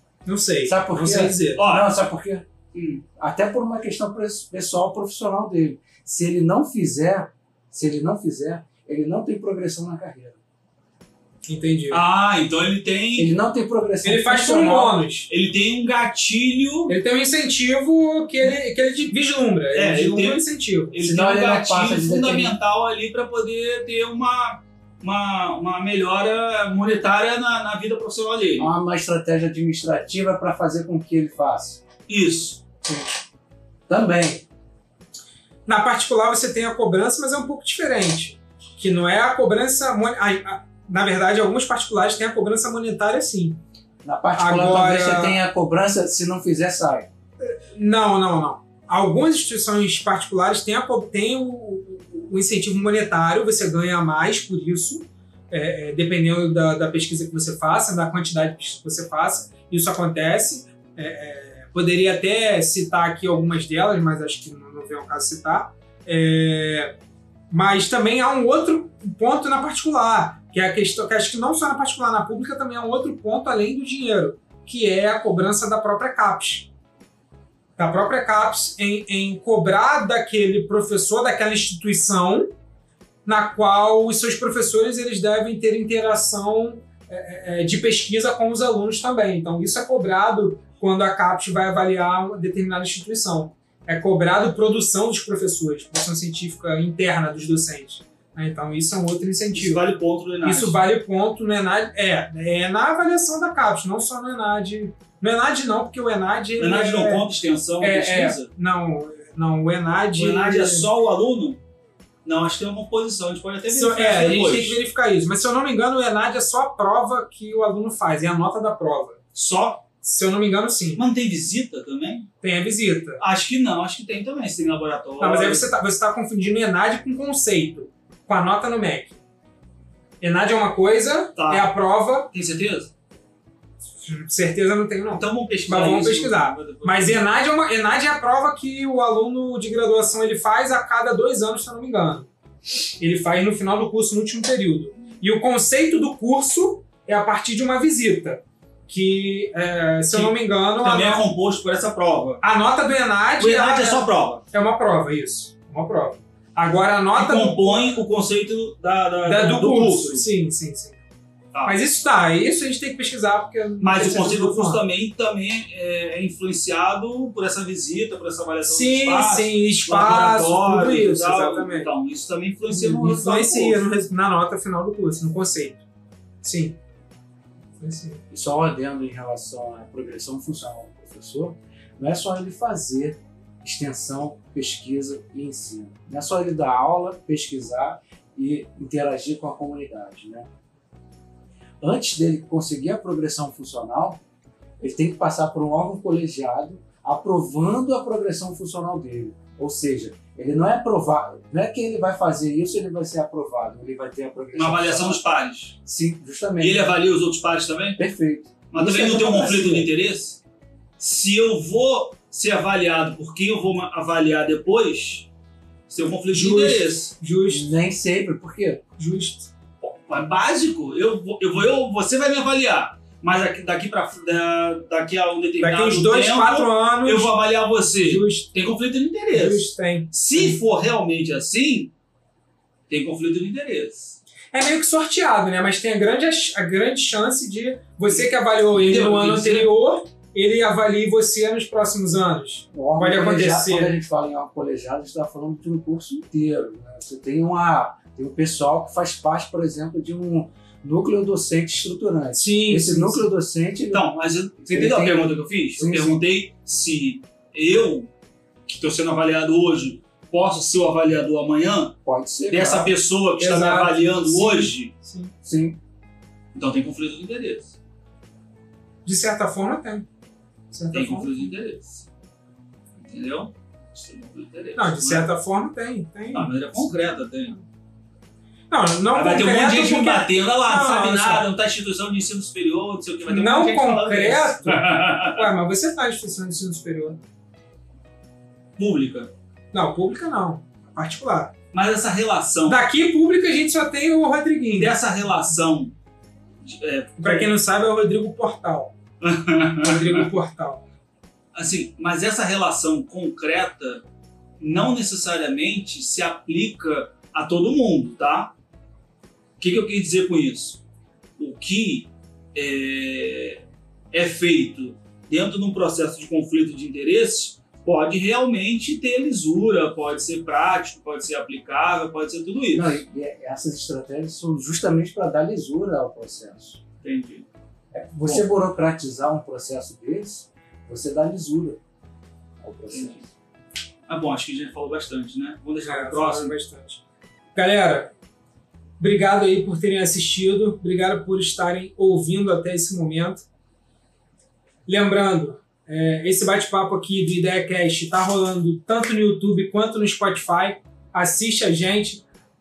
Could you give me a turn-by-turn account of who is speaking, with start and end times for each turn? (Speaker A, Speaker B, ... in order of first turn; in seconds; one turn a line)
Speaker A: 0.2-1.6
Speaker B: 0.7-2.5
Speaker C: 1.6-2.0
Speaker C: 2.7-3.0
Speaker B: 3.1-10.4
Speaker A: 11.5-12.0
Speaker C: 11.9-13.3
Speaker B: 13.2-15.0
Speaker A: 14.0-15.3
Speaker C: 15.3-16.9
Speaker A: 16.9-21.0
Speaker C: 19.7-28.7
Speaker B: 21.0-22.6
Speaker B: 28.6-31.8
Speaker C: 32.1-32.6
Speaker B: 32.9-33.2
Speaker B: 33.9-34.5
Speaker A: 35.7-43.6
Speaker B: 44.0-47.1
Speaker A: 44.4-45.4
Speaker A: 47.4-67.0
Speaker A: 67.5-76.7
Speaker A: 77.8-82.5
Speaker A: 83.2-99.8
Speaker C: 99.5-100.8
Speaker A: 100.4-107.2
Speaker C: 106.6-108.5
Speaker A: 107.8-110.9
Speaker C: 110.1-111.6
Speaker C: 112.2-114.8
Speaker A: 113.7-119.2
Speaker C: 119.3-119.8
Speaker A: 120.0-121.0
Speaker C: 121.0-122.3
Speaker A: 122.4-123.2
Speaker C: 123.2-125.7
Speaker A: 125.2-129.2
Speaker A: 130.2-132.3
Speaker C: 131.4-131.7
Speaker C: 132.3-132.9
Speaker A: 134.0-142.3
Speaker C: 135.1-137.2
Speaker A: 143.0-151.3
Speaker C: 150.1-152.4
Speaker A: 152.4-158.0
Speaker C: 153.4-154.4
Speaker C: 157.2-160.3
Speaker A: 159.3-161.0
Speaker C: 161.5-161.8
Speaker A: 161.7-164.8
Speaker C: 163.8-173.8
Speaker A: 168.7-171.9
Speaker A: 172.7-175.8
Speaker A: 176.4-176.8
Speaker A: 177.8-178.2
Speaker B: 178.3-190.5
Speaker B: 191.8-194.2
Speaker B: 194.8-205.2
Speaker C: 204.5-205.8
Speaker B: 205.8-207.0
Speaker C: 206.6-208.0
Speaker B: 208.0-209.9
Speaker C: 208.7-210.4
Speaker C: 211.0-215.3
Speaker C: 215.9-217.1
Speaker A: 216.3-217.7
Speaker B: 217.5-218.8
Speaker A: 219.0-219.5
Speaker C: 219.8-231.9
Speaker A: 225.6-227.4
Speaker A: 228.0-228.5
Speaker A: 229.3-230.6
Speaker C: 232.9-234.2
Speaker A: 234.5-244.0
Speaker C: 238.1-239.7
Speaker B: 242.7-254.1
Speaker A: 252.3-253.3
Speaker C: 253.9-258.1
Speaker B: 254.7-256.2
Speaker C: 258.7-262.0
Speaker B: 262.1-262.9
Speaker C: 262.5-264.9
Speaker A: 263.4-265.3
Speaker B: 265.4-265.8
Speaker C: 266.6-267.8
Speaker A: 269.1-270.1
Speaker A: 270.7-271.4
Speaker C: 270.9-272.1
Speaker C: 273.0-275.3
Speaker A: 274.8-277.0
Speaker C: 276.3-277.6
Speaker A: 278.7-281.4
Speaker C: 279.1-285.5
Speaker A: 283.3-287.2
Speaker C: 288.8-289.3
Speaker A: 289.7-291.5
Speaker C: 291.7-292.9
Speaker A: 292.7-295.0
Speaker C: 294.8-295.9
Speaker C: 296.6-297.5
Speaker A: 297.2-298.9
Speaker C: 299.2-300.3
Speaker A: 299.8-300.8
Speaker C: 301.5-304.1
Speaker C: 304.6-308.5
Speaker C: 309.6-310.8
Speaker C: 311.4-323.0
Speaker B: 322.7-326.8
Speaker C: 327.0-327.5
Speaker B: 327.9-331.8
Speaker B: 332.6-333.2
Speaker C: 332.9-333.2
Speaker C: 334.1-336.5
Speaker A: 335.8-337.0
Speaker A: 337.6-338.1
Speaker A: 339.0-343.4
Speaker A: 344.9-352.2